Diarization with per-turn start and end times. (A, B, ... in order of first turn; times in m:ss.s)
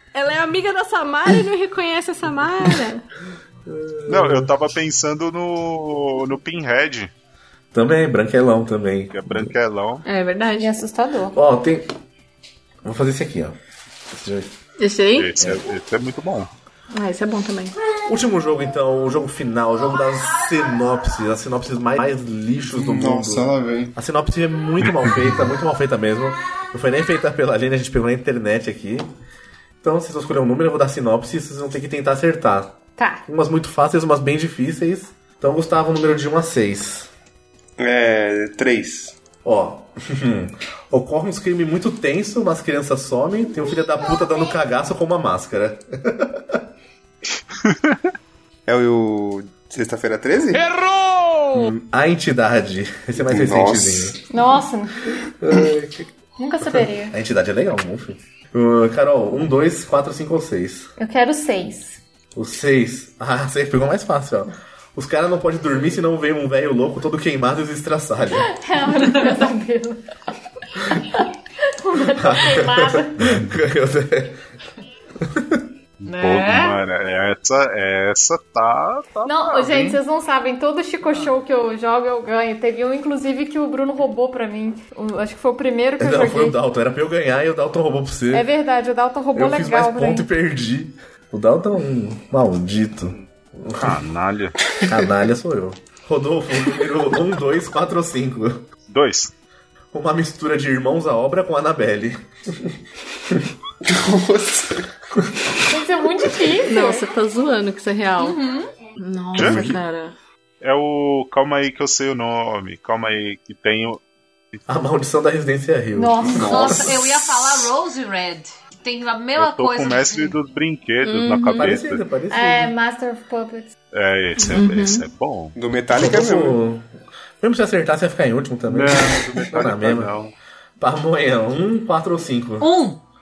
0:00.1-0:03.0 A
0:03.7-0:04.5 B
0:04.1-0:07.1 C
0:07.7-0:09.5 B
0:09.1-0:10.0 C
0:10.0-0:10.7 A
0:10.6-0:11.4 D
0:11.3-0:11.9 B
0:12.8-0:13.6 B
0:14.1-0:14.5 B
0:14.8-0:15.3 A
0:15.1-0:16.5 C
0:16.9-0:17.7 A
0:18.1-0:29.1 B
0:22.7-0:23.9 E
0:29.8-0:32.7 B
0:33.0-0:33.2 D
0:33.3-0:37.1 B
0:37.8-0:39.2 E
0:39.4-0:46.6 B
0:47.6-0:48.1 C
0:48.7-0:50.7 E
0:51.5-0:54.2 B
0:53.2-0:54.2 E
0:54.3-0:55.0 D
0:55.4-0:56.1 B
0:56.4-0:57.2 D
0:56.6-1:00.9 B
1:01.0-1:02.0 D
1:02.3-1:08.5 B
1:08.4-1:10.0 D
1:10.8-1:13.2 D
1:12.2-1:14.4 B
1:13.2-1:13.5 C
1:15.2-1:15.6 B
1:16.0-1:20.0 C
1:16.0-1:16.8 F
1:19.2-1:26.6 D
1:26.0-1:28.5 B
1:28.3-1:30.3 D
1:29.3-1:34.0 B
1:33.8-1:34.6 C
1:34.9-1:38.6 B
1:38.9-1:39.3 C
1:39.9-1:42.7 B
1:43.8-1:44.9 E
1:45.7-1:47.1 D
1:46.6-1:48.4 A
1:48.2-1:48.7 F
1:49.0-1:50.1 A
1:49.3-1:49.8 C
1:50.6-1:54.0 C
1:54.7-1:57.1 B
1:56.0-1:56.6 D
1:56.2-1:57.0 E
1:56.4-2:00.3 F
1:59.4-2:02.0 C
2:01.0-2:01.8 A
2:01.6-2:02.7 B
2:02.3-2:03.7 D
2:03.9-2:05.6 C
2:04.4-2:05.0 A
2:05.6-2:06.6 E
2:05.9-2:06.8 B
2:07.4-2:10.1 B
2:08.7-2:10.3 C
2:10.8-2:12.7 B
2:12.6-2:13.0 F